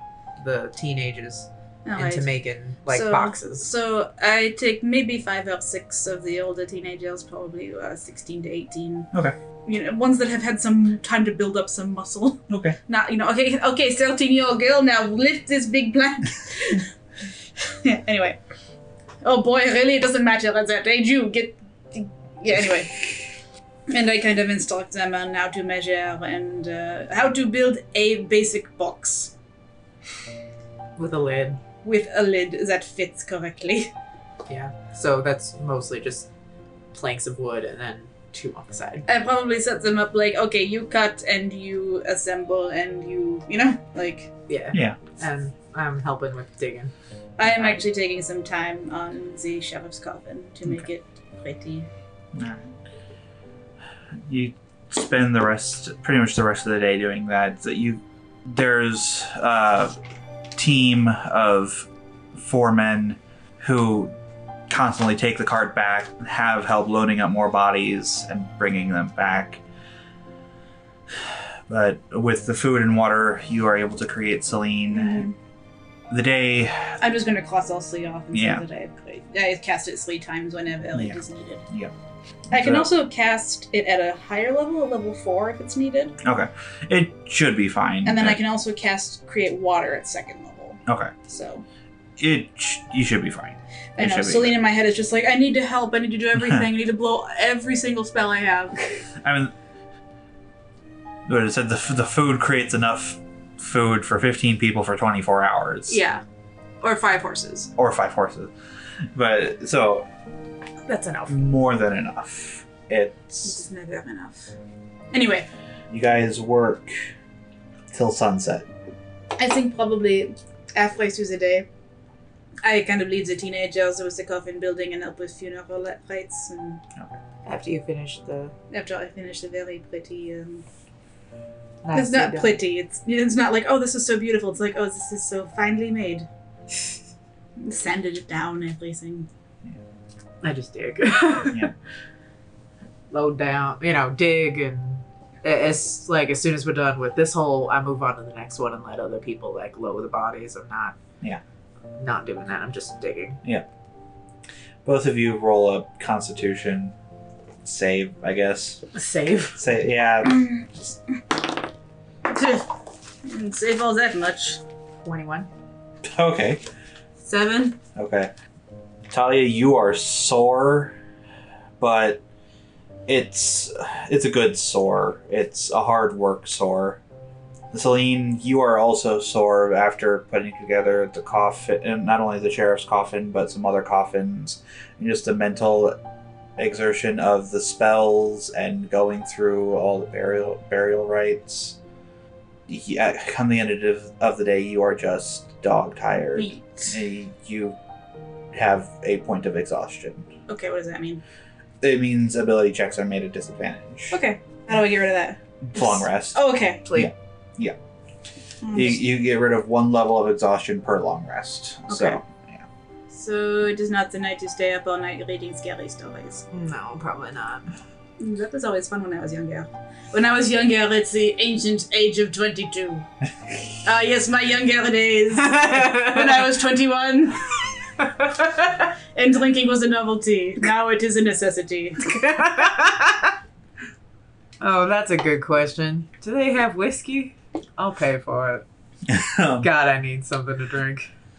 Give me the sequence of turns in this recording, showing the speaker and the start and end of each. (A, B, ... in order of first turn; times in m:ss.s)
0:00.4-0:03.7 A
0:01.8-0:02.3 B
0:02.9-0:09.1 B
0:09.6-0:16.9 B
0:12.5-0:12.8 C
0:17.7-0:18.4 B
0:19.2-0:23.1 B
0:23.9-0:29.3 B
0:31.0-0:31.6 A
0:31.8-0:33.9 B
0:34.5-0:36.3 A
0:36.9-0:39.0 A
0:39.1-0:44.3 B
0:44.5-0:46.9 A
0:44.7-0:45.0 C
0:47.4-0:51.9 B
0:52.3-0:52.6 C
0:54.2-0:59.9 C
1:00.5-1:04.1 C
1:04.7-1:09.6 C
1:11.2-1:15.3 C
1:14.9-1:15.4 B
1:16.1-1:17.0 C
1:17.0-1:21.6 B
1:18.3-1:18.6 C
1:20.9-1:21.2 C
1:22.5-1:22.9 C
1:22.5-1:26.2 B
1:26.2-1:28.4 C
1:28.0-1:31.6 B
1:30.9-1:31.1 C
1:32.2-1:34.6 C
1:34.0-1:38.9 B
1:36.4-1:36.6 C
1:39.2-1:39.5 C
1:41.3-1:46.0 C
1:45.9-1:46.2 B
1:46.8-1:47.7 B
1:47.8-1:48.5 C
1:49.1-1:50.1 C
1:50.9-1:51.4 A
1:51.3-1:53.6 C
1:53.4-1:54.5 B
1:55.1-1:55.5 B
1:55.9-1:57.1 C
1:57.9-1:58.7 C
1:59.4-2:01.7 B
2:02.6-2:06.8 B
2:07.4-2:08.5 A
2:08.7-2:10.6 B
2:11.8-2:12.6 A
2:11.9-2:16.3 B
2:17.6-2:19.3 B
2:20.4-2:21.7 A
2:23.1-2:31.0 A
2:32.0-2:33.4 A
2:34.8-2:36.9 C
2:37.6-2:38.9 C
2:38.9-2:39.6 A
2:39.5-2:40.5 C
2:40.2-2:41.2 B
2:42.3-2:42.7 B
2:43.2-2:44.6 B
2:45.0-2:45.5 A
2:46.0-2:46.6 C
2:47.2-2:47.8 B
2:47.9-2:48.3 C
2:49.1-2:50.9 C
2:51.8-2:52.2 C
2:53.1-2:57.0 C
2:57.7-3:06.0 C
3:06.6-3:11.8 C
3:12.7-3:17.8 C
3:16.4-3:17.0 B
3:18.5-3:20.3 C
3:20.5-3:21.2 B
3:21.8-3:24.2 C
3:24.1-3:26.8 B
3:25.6-3:27.8 C
3:28.6-3:29.0 B
3:28.7-3:32.6 C
3:31.9-3:32.2 B
3:33.1-3:36.4 B
3:36.5-3:37.7 A
3:38.2-3:43.0 B
3:43.8-3:47.4 B
3:45.4-3:46.4 A
3:48.0-3:48.2 A
3:48.3-3:52.2 B
3:52.1-3:53.3 A
3:54.6-3:58.6 A
3:59.1-3:59.7 C
3:59.6-4:01.1 A